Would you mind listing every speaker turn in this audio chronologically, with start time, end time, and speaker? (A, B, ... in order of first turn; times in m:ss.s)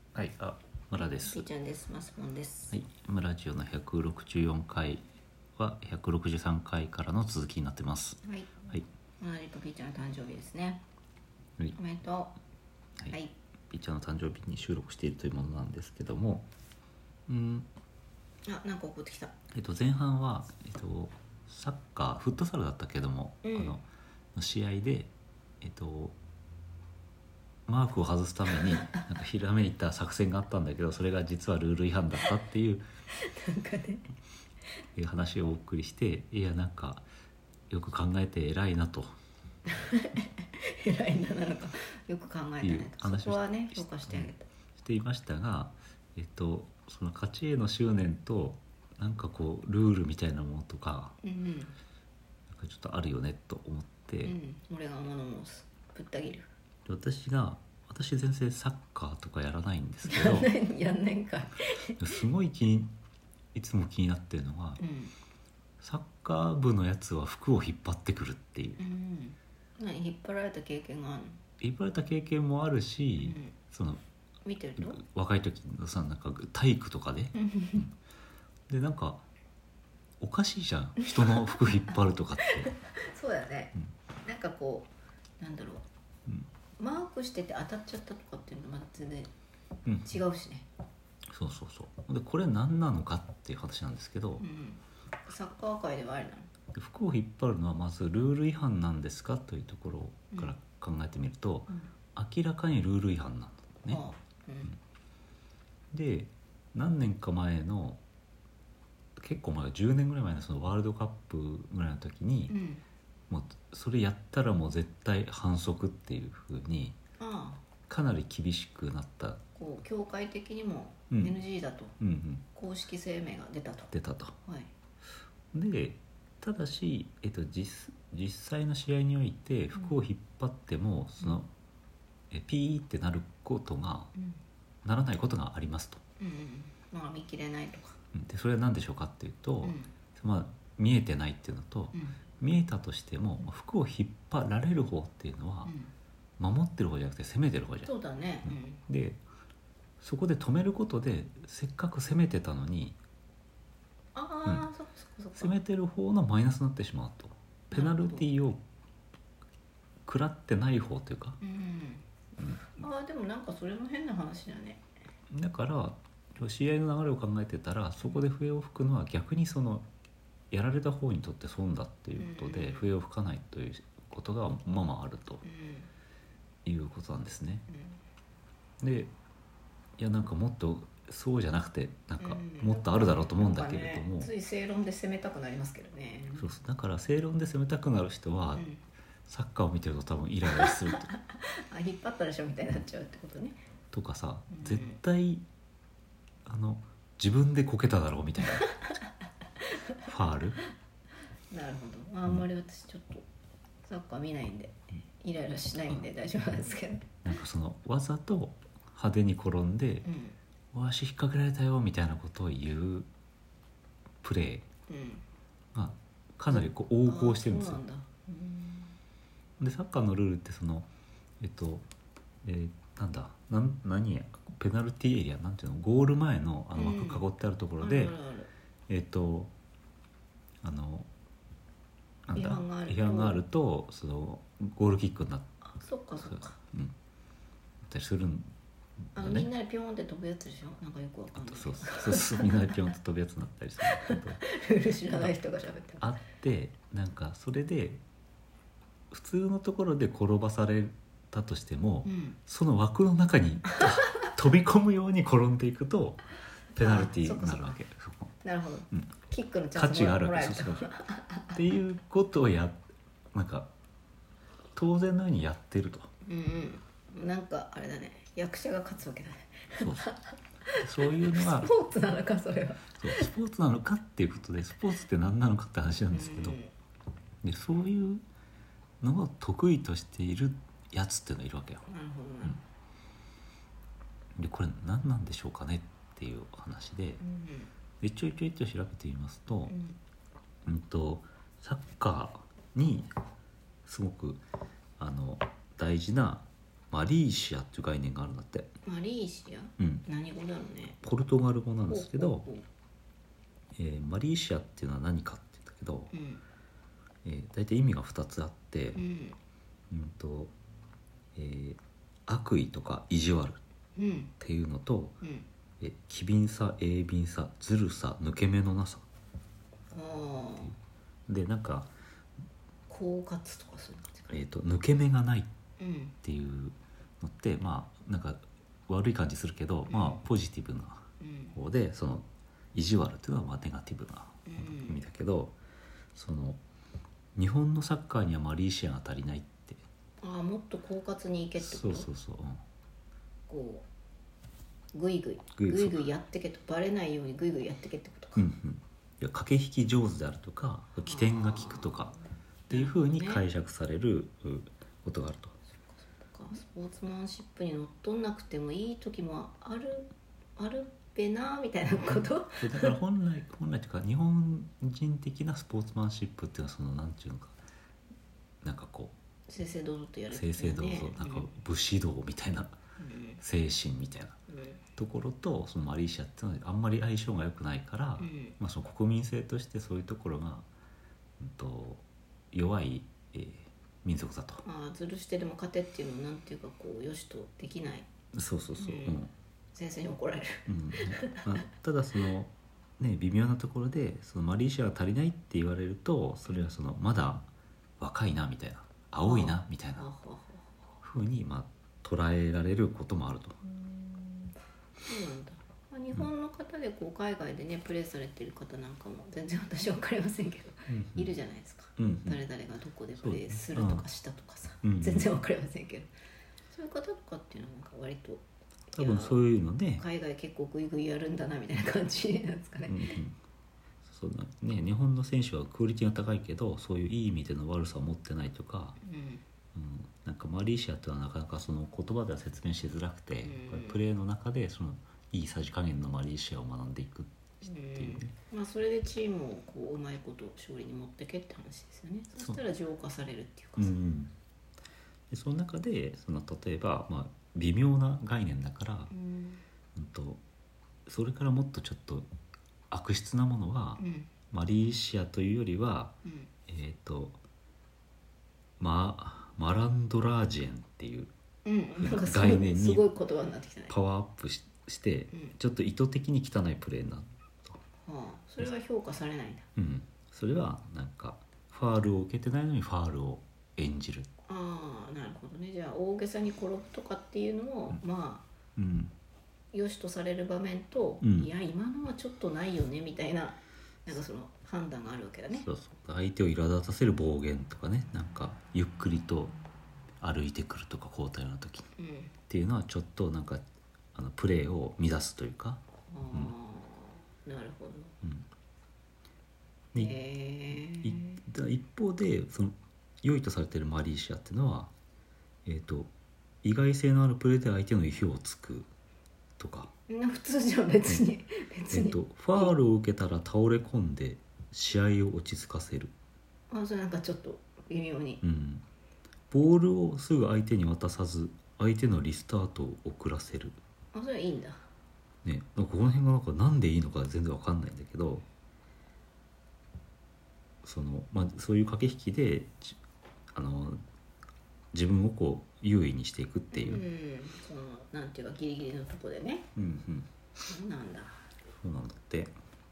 0:00.2-0:01.4 A
0:01.0-0:02.8 B
0:02.7-0:05.0 A
0:05.6-0:08.9 A
0:08.2-0:10.8 B
0:11.7-0:12.4 B
0:13.1-0:13.4 B
0:13.7-0:16.5 A
0:17.3-0:17.7 A
0:18.5-0:19.4 B
0:19.5-0:26.2 A
0:23.4-0:23.8 B
0:27.7-0:32.8 A
0:28.5-0:29.0 B
0:33.2-0:34.0 B
0:35.0-0:37.1 A
0:37.7-0:39.1 A
0:39.7-0:44.5 B
0:42.6-0:51.2 A
0:51.2-0:51.8 B
0:52.5-0:54.4 A
0:54.2-0:56.5 B
0:56.9-1:00.5 A
1:00.0-1:02.0 B
1:02.0-1:02.9 A
1:03.5-1:04.8 A
1:04.8-1:05.1 B
1:05.8-1:08.8 A
1:08.8-1:11.4 B
1:11.6-1:14.0 A
1:13.2-1:13.5 B
1:14.4-1:15.0 B
1:14.8-1:17.9 A
1:17.3-1:17.9 B
1:18.7-1:19.3 A
1:20.2-1:22.7 A
1:21.4-1:21.7 B
1:22.4-1:25.9 B
1:26.8-1:29.3 B
1:29.9-1:30.2 A
1:30.0-1:30.7 B
1:31.3-1:34.4 A
1:34.4-1:36.5 B
1:36.7-1:44.0 A
1:43.9-1:44.8 B
1:45.9-1:48.0 A
1:49.2-1:52.5 A
1:52.5-1:52.8 B
1:53.3-1:57.0 A
1:57.2-1:57.6 B
1:57.9-1:59.4 A
1:59.6-2:02.0 B
2:01.1-2:01.4 A
2:02.0-2:02.4 A
2:02.5-2:03.9 B
2:03.9-2:04.4 A
2:04.4-2:04.7 B
2:05.5-2:11.5 A
2:12.3-2:14.1 A
2:14.2-2:14.4 B
2:14.8-2:16.0 A
2:16.2-2:18.0 B
2:18.1-2:25.7 A
2:19.6-2:19.9 B
2:25.6-2:25.9 B
2:26.4-2:27.9 A
2:27.8-2:28.8 B
2:28.4-2:29.2 A
2:30.0-2:33.0 A
2:34.2-2:35.6 B
2:35.4-2:38.6 A
2:37.7-2:38.3 B
2:40.0-2:41.4 A
2:41.4-2:42.0 B
2:42.4-2:42.7 A
2:42.6-2:44.8 B
2:45.3-2:49.9 A
2:50.5-2:55.4 A
2:52.2-2:52.9 B
2:55.4-2:55.9 B
2:56.6-2:57.7 A
2:57.7-2:58.0 B
2:58.8-2:59.1 A
3:00.0-3:04.3 A
3:02.2-3:06.5 B
3:06.4-3:08.7 A
3:08.5-3:08.8 B
3:09.3-3:11.1 A
3:10.5-3:13.6 B
3:13.9-3:15.4 A
3:14.5-3:15.0 B
3:16.4-3:18.7 A
3:18.5-3:19.0 B
3:19.7-3:20.0 B
3:20.0-3:20.6 A
3:21.5-3:23.2 B
3:23.9-3:27.1 B
3:27.2-3:30.1 A
3:30.0-3:30.4 B
3:30.7-3:33.1 A
3:34.2-3:34.7 A
3:34.9-3:35.2 B
3:35.7-3:37.8 A
3:36.5-3:38.9 B
3:39.6-3:40.9 A
3:41.4-3:41.8 A
3:42.4-3:48.2 A
3:46.8-3:47.3 B
3:47.8-3:48.5 B
3:48.9-3:49.5 A
3:50.6-3:51.1 A
3:52.3-3:55.5 A
3:52.3-3:53.4 B
3:55.6-3:56.6 B
3:56.3-3:56.9 A
3:57.8-3:58.5 A
3:59.1-3:59.5 A
3:59.2-4:02.9 B
4:01.3-4:04.4 A
4:03.8-4:06.0 B
4:06.0-4:08.0 A
4:09.1-4:16.2 A
4:12.0-4:12.4 B
4:16.8-4:18.4 A
4:16.8-4:17.8 B
4:18.4-4:21.8 B
4:19.8-4:20.9 A
4:21.5-4:22.8 A
4:23.3-4:23.7 A
4:24.8-4:26.1 A
4:26.2-4:33.3 B
4:29.8-4:30.1 A
4:30.8-4:31.7 A
4:33.0-4:36.6 A
4:36.1-4:36.7 B
4:37.4-4:38.2 A
4:39.0-4:41.8 A
4:41.8-4:42.6 B
4:44.4-4:47.2 A
4:47.2-4:47.7 B
4:48.0-4:49.7 A
4:49.7-4:50.0 B
4:50.6-4:53.1 A
4:53.9-4:54.4 A
4:55.0-4:58.7 A
4:58.8-5:01.0 B
4:59.8-5:00.0 A
5:01.0-5:02.5 A
5:01.9-5:02.6 B
5:03.8-5:06.1 A
5:06.1-5:06.4 B
5:07.2-5:09.0 A
5:08.9-5:09.4 B
5:09.9-5:10.5 A
5:11.4-5:13.6 A
5:14.0-5:14.3 B
5:14.4-5:15.2 A
5:15.8-5:19.1 A
5:19.9-5:20.7 B
5:21.3-5:21.9 A
5:22.9-5:24.3 B
5:24.3-5:25.5 A
5:25.8-5:26.2 B
5:26.2-5:35.6 A
5:29.9-5:30.2 B
5:31.2-5:31.6 B
5:34.5-5:35.0 B
5:36.2-5:36.6 A
5:37.4-5:39.8 A
5:40.2-5:42.1 B
5:41.6-5:42.6 A
5:43.5-5:43.9 B
5:44.9-5:48.5 B
5:45.6-5:46.1 A
5:48.4-5:52.1 A
5:51.1-5:52.2 B
5:52.7-5:53.4 B
5:52.7-5:55.6 A
5:55.8-6:03.0 B
6:02.6-6:07.6 A
6:08.6-6:09.1 A
6:09.5-6:11.5 B
6:10.3-6:12.8 A
6:13.0-6:13.4 B
6:13.4-6:14.4 A
6:14.5-6:14.8 B
6:15.0-6:20.7 A
6:18.2-6:18.6 B
6:21.4-6:24.6 A
6:24.6-6:28.1 B
6:28.3-6:29.3 A
6:28.8-6:29.2 B
6:29.7-6:31.5 B
6:30.7-6:37.5 A
6:38.0-6:40.1 A
6:39.2-6:40.7 B
6:41.0-6:43.6 A
6:43.6-6:56.1 B
6:50.9-6:51.4 A
6:52.0-6:52.4 A
6:53.2-6:54.0 A
6:54.8-6:55.3 A
6:56.7-6:59.4 B
6:59.0-7:00.0 A
7:00.0-7:03.2 B
7:02.9-7:03.4 A
7:04.0-7:09.0 A
7:09.0-7:09.4 B
7:09.8-7:18.3 A
7:13.4-7:14.0 B
7:17.6-7:24.0 B
7:23.8-7:24.3 A
7:25.3-7:29.1 A
7:29.1-7:29.6 B
7:30.0-7:30.4 A
7:31.1-7:32.3 A
7:32.9-7:36.2 A
7:34.0-7:34.3 B
7:36.2-7:36.5 B
7:36.7-7:37.4 A
7:38.8-7:41.3 A
7:41.6-7:44.0 B
7:42.0-7:43.1 A
7:43.9-7:47.8 A
7:48.0-7:49.7 B
7:49.8-7:54.3 A
7:54.5-7:58.5 B
7:58.8-7:59.1 A
7:59.7-8:05.7 B
8:01.2-8:01.5 A
8:05.5-8:09.6 A
8:10.2-8:11.9 A
8:12.0-8:12.3 B
8:12.5-8:16.5 A
8:16.1-8:18.2 B
8:19.9-8:20.2 A
8:20.0-8:21.4 B
8:20.7-8:24.9 A
8:25.6-8:26.1 A
8:26.6-8:28.9 A
8:29.6-8:29.9 A
8:30.1-8:32.8 B
8:31.9-8:36.1 A
8:36.7-8:38.4 B
8:38.4-8:38.8 A
8:39.5-8:43.8 A
8:44.1-8:44.9 B
8:45.4-8:48.4 A
8:50.8-8:53.0 A
8:53.5-8:54.0 A
8:54.9-8:57.0 A
8:56.7-8:59.7 B
8:59.8-9:00.3 A
9:00.7-9:01.4 B
9:01.7-9:02.6 A